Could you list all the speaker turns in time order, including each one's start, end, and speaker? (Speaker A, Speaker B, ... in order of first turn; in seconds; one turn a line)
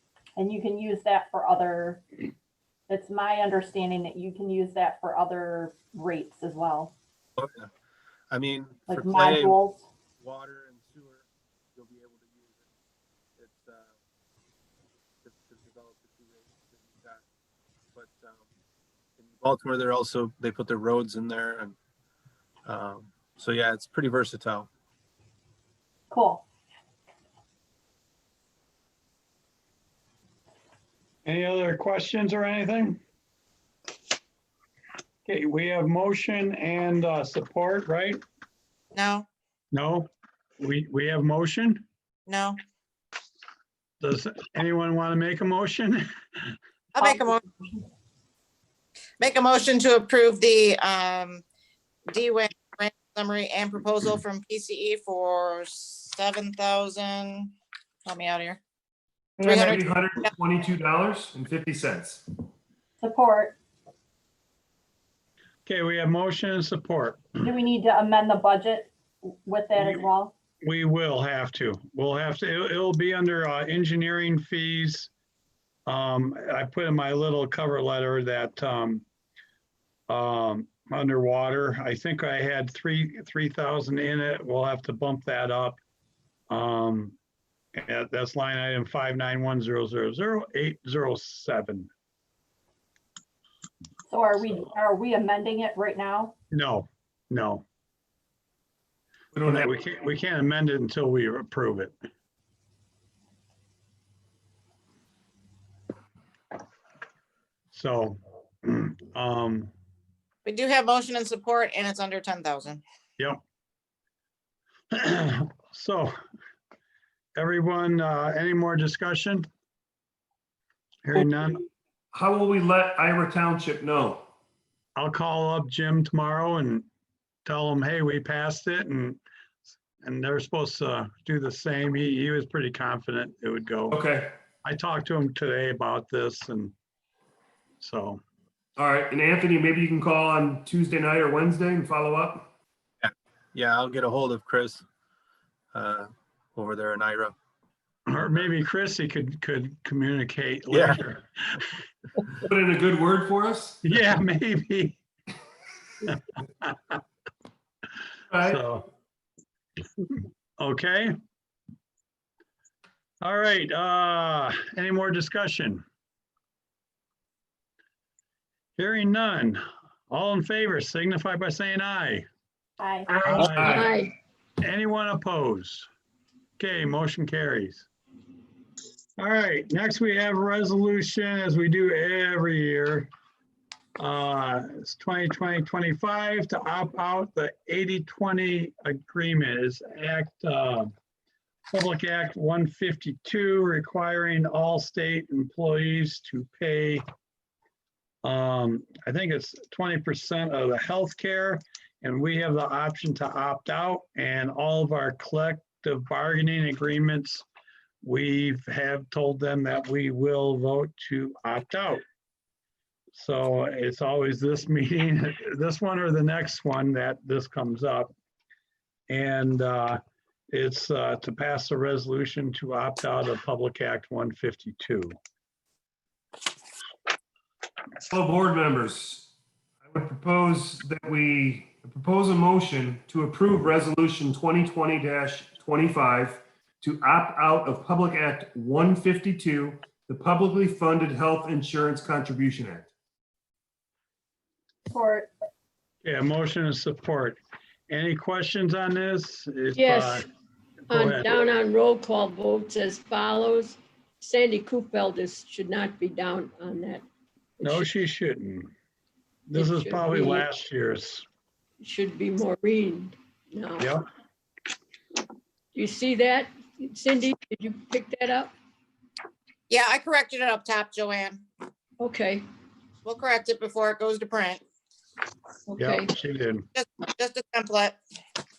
Speaker A: 0.3-2.0
Speaker A: 2.9-6.9
Speaker B: 7.4-7.7
Speaker B: 8.3-9.6
Speaker A: 8.9-9.8
Speaker B: 10.2-12.7
Speaker B: 13.4-14.0
Speaker B: 15.2-17.2
Speaker B: 17.9-18.5
Speaker B: 19.2-21.8
Speaker B: 22.6-24.7
Speaker A: 26.1-26.4
Speaker C: 31.2-33.0
Speaker C: 35.2-38.2
Speaker D: 38.9-39.2
Speaker C: 39.7-40.1
Speaker C: 40.6-41.8
Speaker D: 42.3-42.6
Speaker C: 44.0-46.5
Speaker D: 46.9-47.4
Speaker A: 47.0-47.9
Speaker D: 49.2-51.4
Speaker D: 52.1-57.5
Speaker D: 58.0-58.6
Speaker D: 59.4-59.9
Speaker E: 59.5-62.2
Speaker A: 63.0-63.6
Speaker C: 65.7-67.3
Speaker A: 67.4-70.3
Speaker C: 69.8-70.0
Speaker C: 70.6-75.1
Speaker C: 75.9-79.0
Speaker C: 80.1-85.8
Speaker C: 86.5-87.2
Speaker C: 87.8-91.9
Speaker A: 94.1-96.3
Speaker C: 96.5-97.6
Speaker E: 99.3-99.8
Speaker C: 99.4-101.9
Speaker C: 107.7-109.7
Speaker D: 110.5-112.8
Speaker C: 114.9-116.1
Speaker C: 117.3-119.5
Speaker C: 121.0-121.6
Speaker E: 122.1-124.2
Speaker C: 125.0-126.8
Speaker C: 127.4-129.2
Speaker C: 130.0-134.0
Speaker E: 133.9-134.3
Speaker C: 134.6-136.7
Speaker C: 137.8-138.2
Speaker E: 138.8-142.5
Speaker B: 143.0-144.8
Speaker B: 145.7-147.3
Speaker C: 148.1-151.6
Speaker B: 150.7-151.0
Speaker E: 152.4-153.8
Speaker C: 153.8-155.0
Speaker C: 156.0-157.0
Speaker E: 158.3-158.6
Speaker C: 158.4-158.9
Speaker C: 160.6-161.1
Speaker C: 163.2-165.8
Speaker C: 168.8-172.2
Speaker A: 172.8-173.1
Speaker C: 173.2-173.9
Speaker E: 173.4-173.8
Speaker F: 173.6-174.1
Speaker C: 174.6-175.9
Speaker C: 176.6-177.9
Speaker C: 179.2-183.1
Speaker C: 184.0-190.9
Speaker C: 191.7-197.0
Speaker C: 198.2-207.4
Speaker C: 208.0-212.0
Speaker C: 213.1-218.1
Speaker C: 219.1-220.0
Speaker C: 220.5-225.2
Speaker E: 228.1-229.3
Speaker E: 229.8-242.9
Speaker A: 244.9-245.3
Speaker C: 246.0-250.2
Speaker F: 249.8-250.2
Speaker F: 250.9-257.0
Speaker C: 250.9-251.3
Speaker F: 257.6-257.9
Speaker C: 257.6-258.7
Speaker C: 259.5-261.2
Speaker F: 259.5-260.4
Speaker F: 261.8-263.9
Speaker C: 263.8-264.0
Speaker F: 265.7-268.5
Speaker D: 269.7-271.4
Speaker F: 272.0-272.4
Speaker D: 273.0-274.6
Speaker F: 275.7-276.1
Speaker C: 275.8-276.7
Speaker D: 276.7-278.0